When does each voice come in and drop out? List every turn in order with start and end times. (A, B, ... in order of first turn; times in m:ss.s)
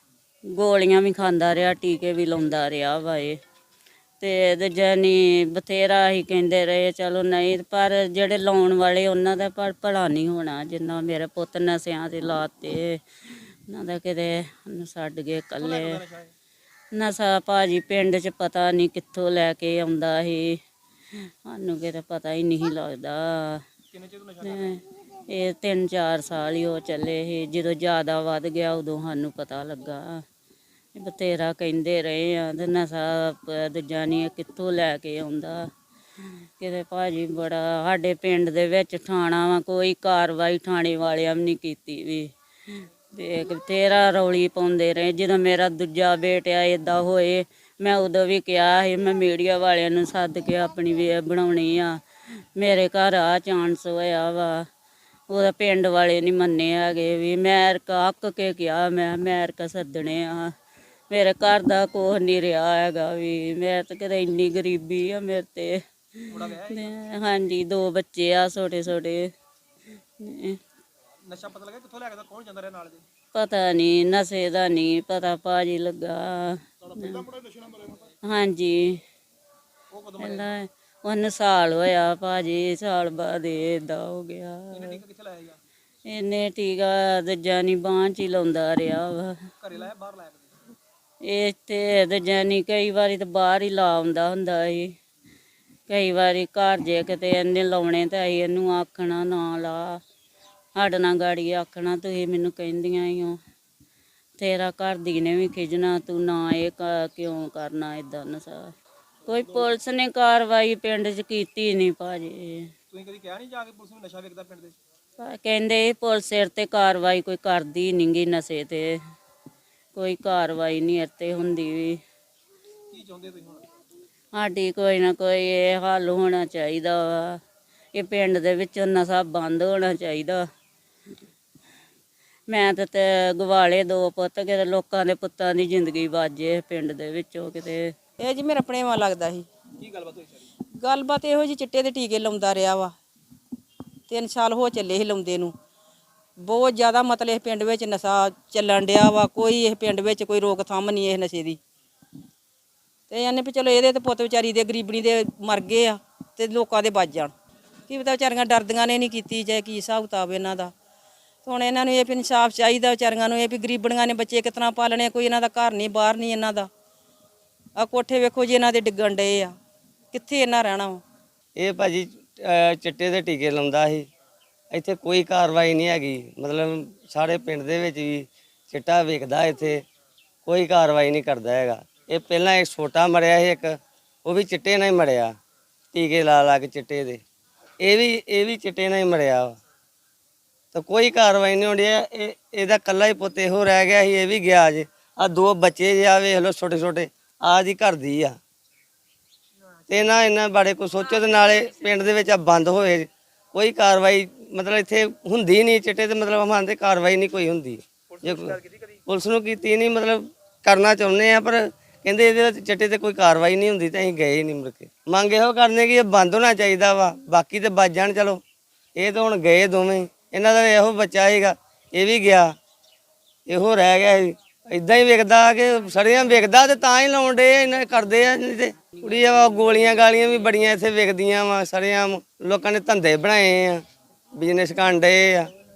0:00.5-0:03.4 A
0:04.2-0:13.0 A
0:13.7-0:16.0 A
0:15.6-0:16.3 B
0:16.9-0:20.6 A
0:21.4-0:23.6 A
0:23.9-0:24.7 B
0:24.4-0:30.2 A
0:31.0-0:35.7 A
0:36.6-0:42.3 A
0:43.1-0:52.0 A
0:52.6-0:54.6 A
0:55.3-1:00.5 A
1:01.1-1:09.3 A
1:06.3-1:06.9 B
1:10.2-1:10.6 A
1:11.3-1:13.0 B
1:13.3-1:17.2 A
1:16.8-1:18.1 B
1:18.2-1:19.0 A
1:19.9-1:20.5 B
1:20.2-1:25.0 A
1:24.7-1:25.6 B
1:26.0-1:29.4 A
1:29.6-1:30.5 B
1:31.2-1:34.9 A
1:35.9-1:40.0 A
1:40.8-1:43.4 A
1:44.4-1:48.7 A
1:49.3-1:52.7 A
1:49.3-1:49.6 B
1:52.9-1:54.8 B
1:55.2-1:59.0 A
1:59.9-2:02.0 A
2:02.9-2:03.6 B
2:04.3-2:07.4 A
2:07.9-2:10.4 A
2:12.5-2:17.9 A
2:18.2-2:19.5 C
2:19.8-2:20.5 B
2:20.8-2:22.9 C
2:24.1-2:25.5 C
2:26.4-2:31.6 C
2:33.1-2:37.3 C
2:37.9-2:40.7 C
2:41.4-2:46.7 C
2:47.8-2:49.5 C
2:50.1-2:51.0 C
2:51.6-2:54.1 D
2:54.7-2:59.8 D
3:00.4-3:05.3 D
3:05.9-3:07.2 D
3:07.8-3:09.6 D
3:10.7-3:18.4 D
3:19.9-3:38.4 D
3:28.2-3:28.9 B
3:39.0-3:42.5 D
3:43.5-3:53.8 D
3:54.4-3:55.5 D